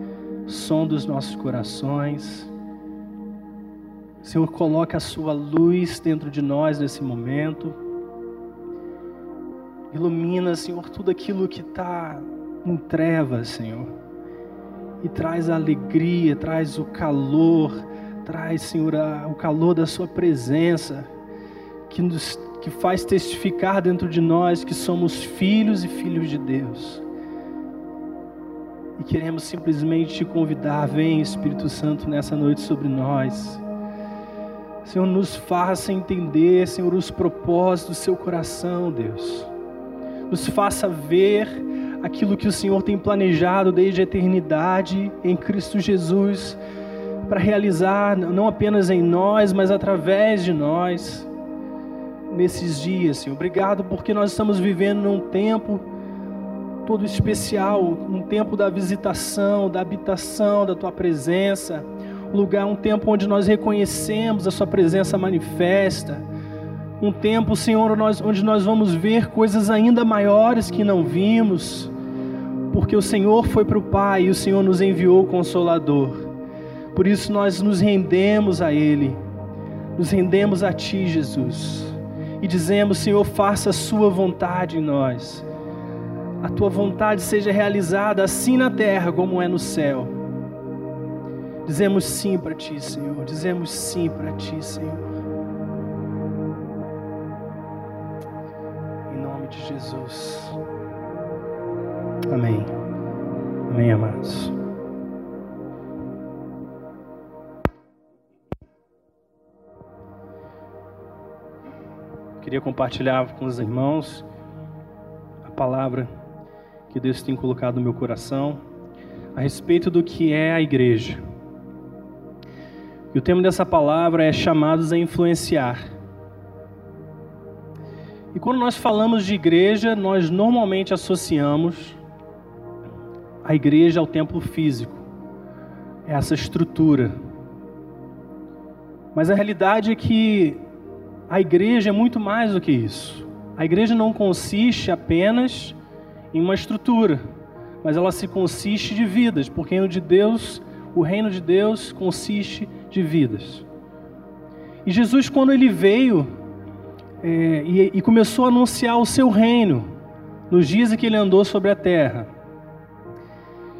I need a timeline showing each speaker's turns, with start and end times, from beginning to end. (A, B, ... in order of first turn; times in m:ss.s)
0:00.4-0:02.5 A
0:04.2-0:07.8 A
0:09.9-0:13.9 A
0:15.0-0:21.1 A
0:21.9-0:27.0 A
0:29.0-0:33.6 A
0:34.8-0:39.5 A
0:40.3-0:46.6 A
0:47.3-0:51.3 A
0:52.3-0:55.8 A
0:56.8-1:06.2 A
1:07.0-1:11.9 A
1:12.7-1:16.3 A
1:16.9-1:19.2 A
1:20.0-1:25.4 A
1:26.4-1:30.1 A
1:31.6-1:35.1 A
1:39.1-1:40.6 A
1:42.3-1:42.7 A
1:43.7-1:44.5 A
1:52.4-1:54.2 A
1:55.4-1:56.1 A
1:56.9-1:58.6 A
1:59.3-2:01.2 A
2:03.1-2:05.8 A
2:08.3-2:12.0 A
2:13.4-2:15.0 A
2:16.0-2:17.1 A
2:19.1-2:20.6 A
2:21.3-2:25.8 A
2:26.3-2:27.2 A
2:27.8-2:33.6 A
2:34.8-2:36.3 A
2:37.2-2:39.8 A
2:40.5-2:42.3 A